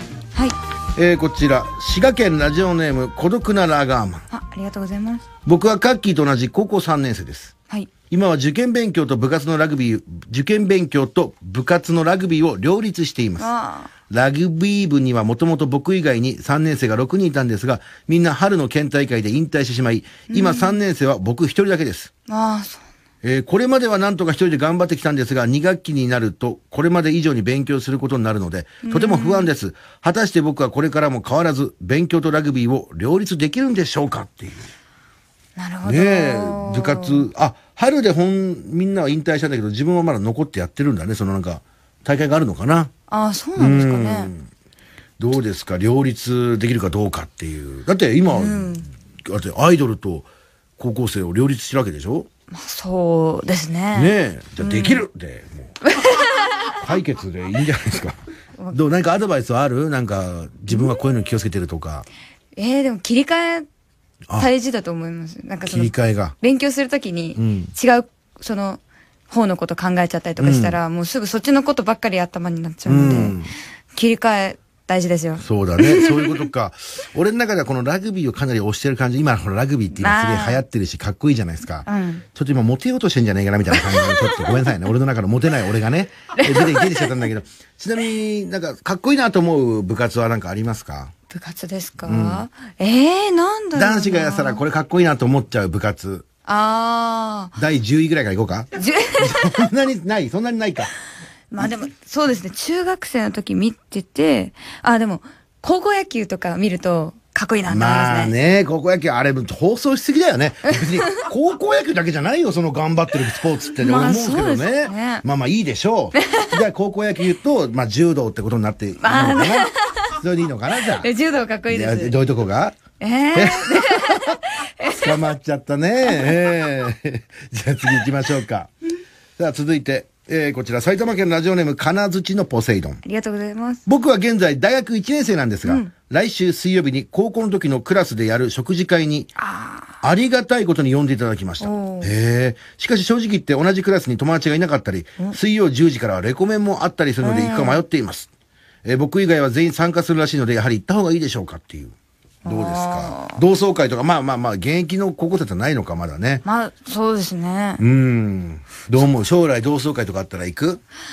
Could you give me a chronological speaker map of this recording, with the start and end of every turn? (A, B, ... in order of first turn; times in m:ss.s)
0:01.0-0:04.3 A
0:04.3-0:05.2 B
0:05.4-0:07.5 A
0:08.1-0:13.5 A
0:13.4-0:13.9 B
0:14.1-0:22.1 A
0:20.3-0:20.8 B
0:22.3-0:22.8 B
0:23.2-0:34.7 A
0:28.8-0:29.5 B
0:35.6-0:37.3 B
0:35.8-0:42.9 A
0:43.1-0:44.3 B
0:43.6-0:44.5 A
0:45.2-0:52.3 A
0:48.3-0:48.9 B
0:52.5-0:55.0 B
0:53.9-0:55.7 A
0:55.8-0:56.6 B
0:56.8-0:58.2 A
0:58.7-1:02.0 A
1:02.6-1:03.7 B
1:04.4-1:13.4 B
1:05.6-1:06.3 A
1:07.4-1:07.7 A
1:10.4-1:10.8 A
1:12.9-1:13.5 A
1:14.0-1:16.5 B
1:15.4-1:31.1 A
1:20.0-1:20.6 B
1:21.9-1:22.2 B
1:26.4-1:27.1 B
1:31.3-1:34.6 B
1:32.0-1:32.4 A
1:33.7-1:36.3 A
1:36.4-1:37.6 B
1:37.6-1:40.9 A
1:38.8-1:39.6 B
1:41.5-1:48.3 B
1:47.7-2:01.1 A
1:53.8-1:55.2 B
1:56.2-1:56.5 B
1:59.0-2:00.2 B
2:01.0-2:02.1 B
2:01.7-2:02.8 A
2:03.0-2:05.1 B
2:03.3-2:08.7 A
2:09.4-2:13.0 A
2:13.0-2:13.8 B
2:13.9-2:19.3 A
2:15.6-2:15.9 B
2:19.4-2:19.9 B
2:20.0-2:28.3 A
2:21.6-2:22.1 B
2:27.2-2:27.8 B
2:28.8-2:31.9 A
2:32.4-2:33.4 B
2:32.4-2:36.4 A
2:36.4-2:37.8 B
2:37.8-2:40.8 A